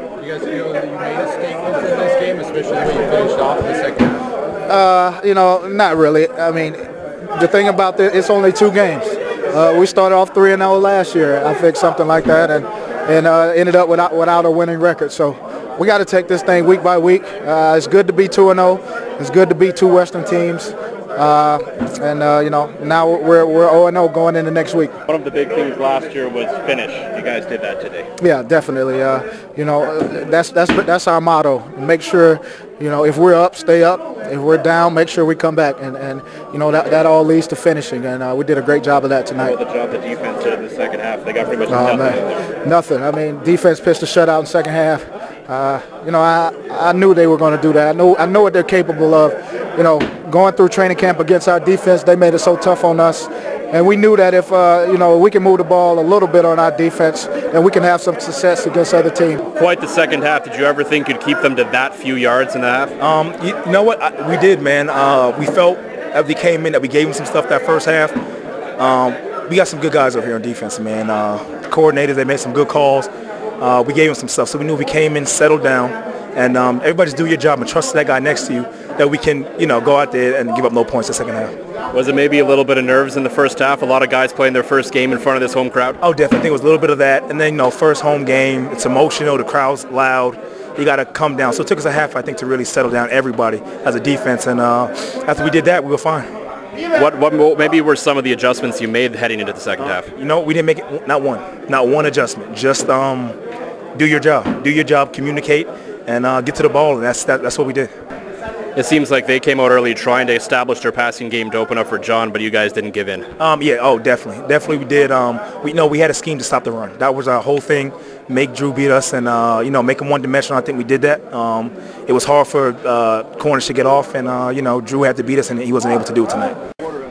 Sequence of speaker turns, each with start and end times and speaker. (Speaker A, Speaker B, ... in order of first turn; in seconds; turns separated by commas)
Speaker A: 0.2-4.2, Speaker B: 4.7-24.9, Speaker C: 25.1-28.1, Speaker B: 28.2-39.5, Speaker C: 39.4-42.4, Speaker B: 41.7-59.4, Speaker C: 59.5-62.9, Speaker D: 63.0-68.2, Speaker D: 68.8-81.5, Speaker C: 81.9-86.0, Speaker D: 86.0-96.3, Speaker C: 96.9-100.1, Speaker D: 100.1-103.4, Speaker D: 103.9-107.9, Speaker C: 108.7-113.3, Speaker D: 113.4-126.5